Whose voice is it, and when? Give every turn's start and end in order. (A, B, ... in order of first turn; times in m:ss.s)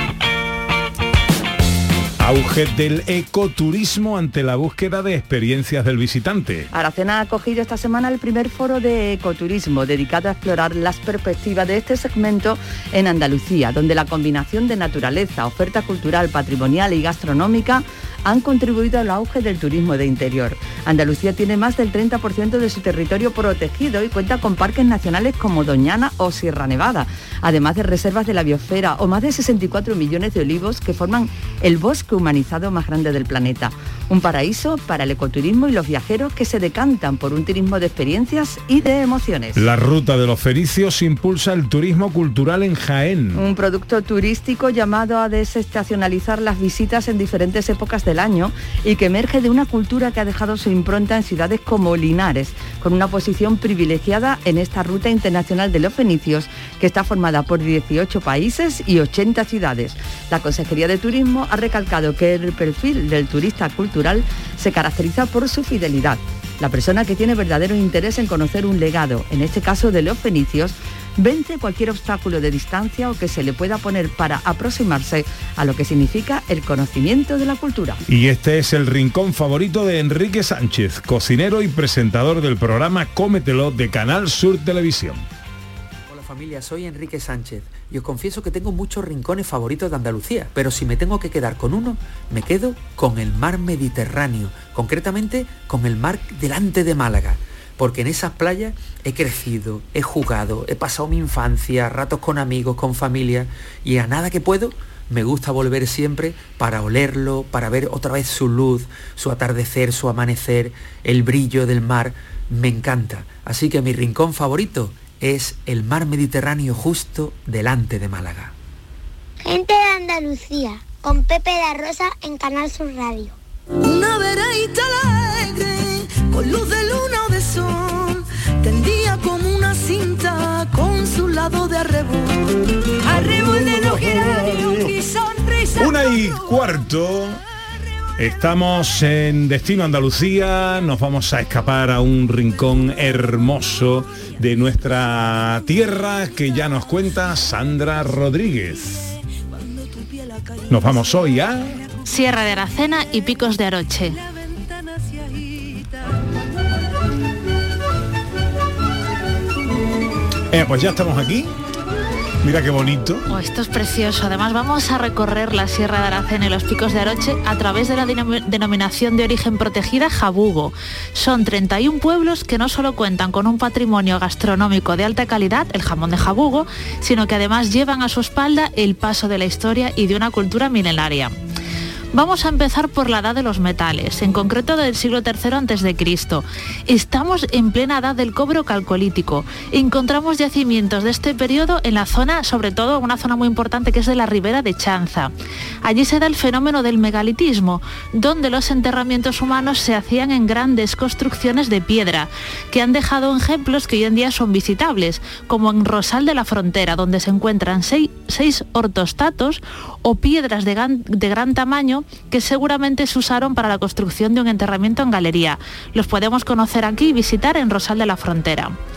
0:02.2-0:06.7 A
0:06.7-0:39.6 B
0:39.6-0:43.4 A
0:43.4-1:18.0 B
1:18.1-1:25.2 A
1:26.1-1:58.5 C
1:59.4-2:03.4 D
2:03.8-2:16.5 E
2:13.1-2:14.8 A
2:15.8-2:17.4 A
2:18.2-2:29.2 A
2:30.7-2:31.8 A
2:32.0-2:34.2 F
2:40.5-2:41.5 A
2:42.4-2:43.3 A
2:43.3-3:01.3 F
3:02.1-3:15.3 F
3:15.8-3:38.8 F